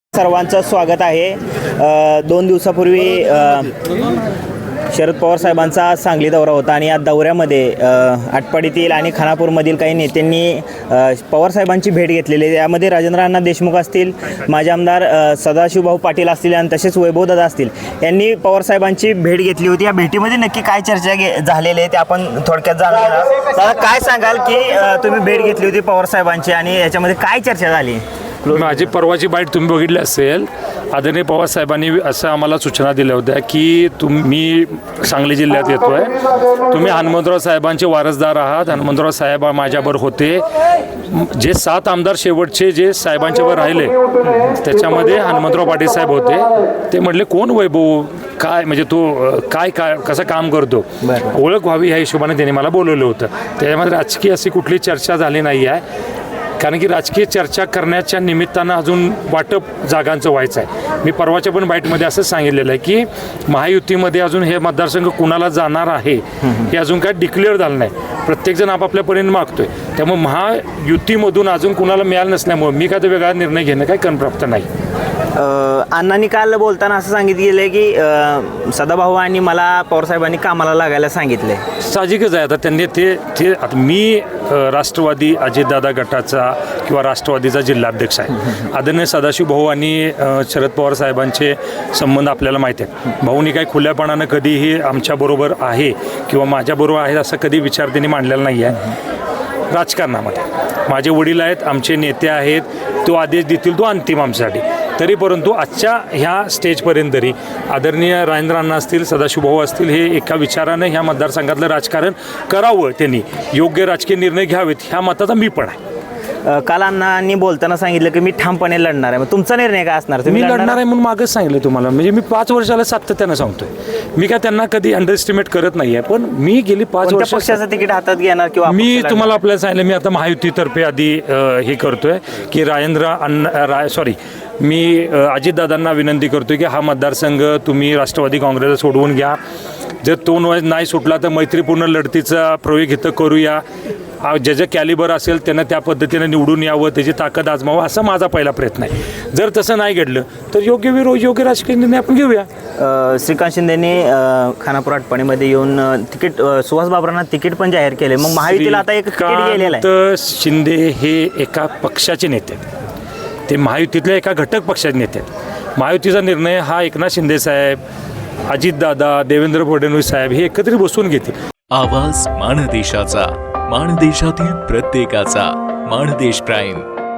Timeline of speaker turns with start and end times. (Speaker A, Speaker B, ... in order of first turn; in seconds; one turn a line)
Speaker A: 0.1-3.7
Speaker A: 4.9-28.9
Speaker B: 28.5-40.4
Speaker B: 41.1-55.8
Speaker B: 56.6-74.7
Speaker A: 75.4-81.6
Speaker B: 81.8-98.9
Speaker B: 99.7-115.8
Speaker A: 116.5-120.8
Speaker B: 120.3-127.6
Speaker A: 127.0-129.4
Speaker B: 128.7-139.4
Speaker B: 140.0-143.6
Speaker B: 144.2-152.5
Speaker A: 152.8-159.9
Speaker B: 158.2-162.6
Speaker B: 163.5-167.8
Speaker B: 168.5-171.4
Speaker C: 171.7-176.9